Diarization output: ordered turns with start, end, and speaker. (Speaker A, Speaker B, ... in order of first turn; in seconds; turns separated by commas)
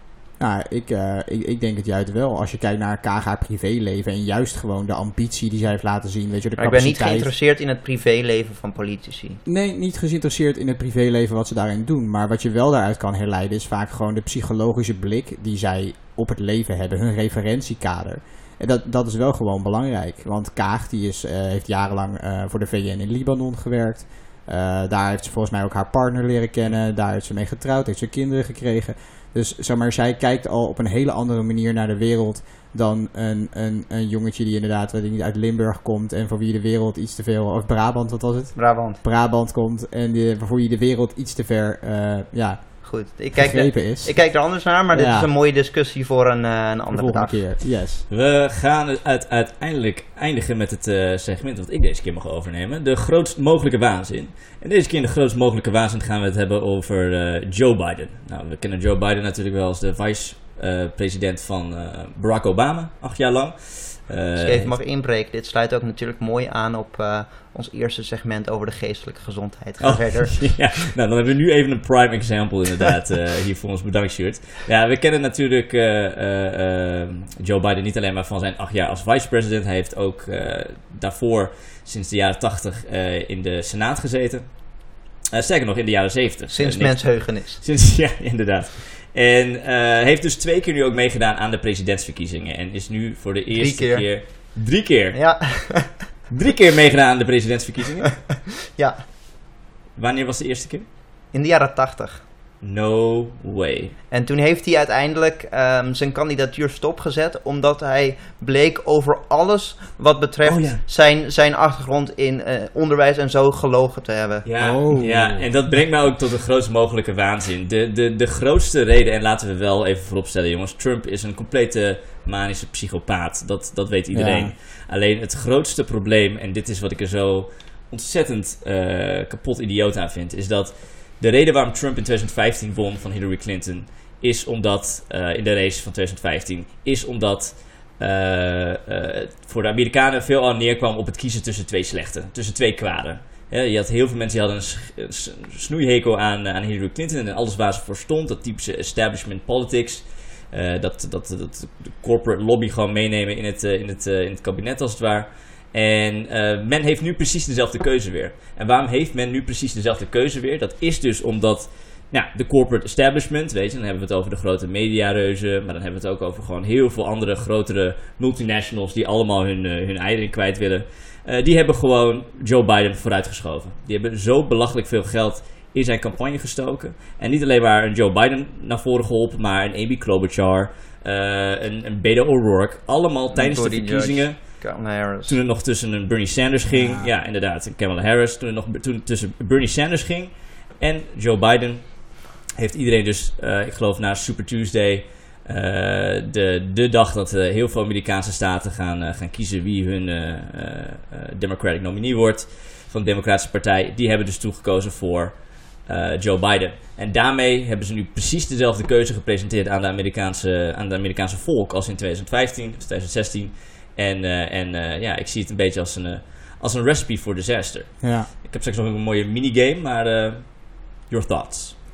Speaker A: 0.4-7.3, Speaker B: 6.6-9.4, Speaker A: 9.4-45.3, Speaker B: 38.5-39.0, Speaker B: 42.8-47.5, Speaker A: 46.9-48.0, Speaker C: 48.1-64.7, Speaker B: 64.4-70.7, Speaker C: 69.8-95.7, Speaker B: 86.5-87.6, Speaker B: 93.5-94.5, Speaker B: 95.1-96.1, Speaker C: 96.3-98.2, Speaker B: 98.8-99.0, Speaker C: 100.0-100.8, Speaker B: 101.3-102.2, Speaker C: 102.6-103.9, Speaker B: 104.1-114.5, Speaker C: 110.4-110.8, Speaker C: 114.4-184.6, Speaker A: 114.6-115.5, Speaker A: 124.1-124.5, Speaker B: 183.3-185.4, Speaker C: 185.2-221.7, Speaker A: 186.7-187.1, Speaker A: 218.0-218.3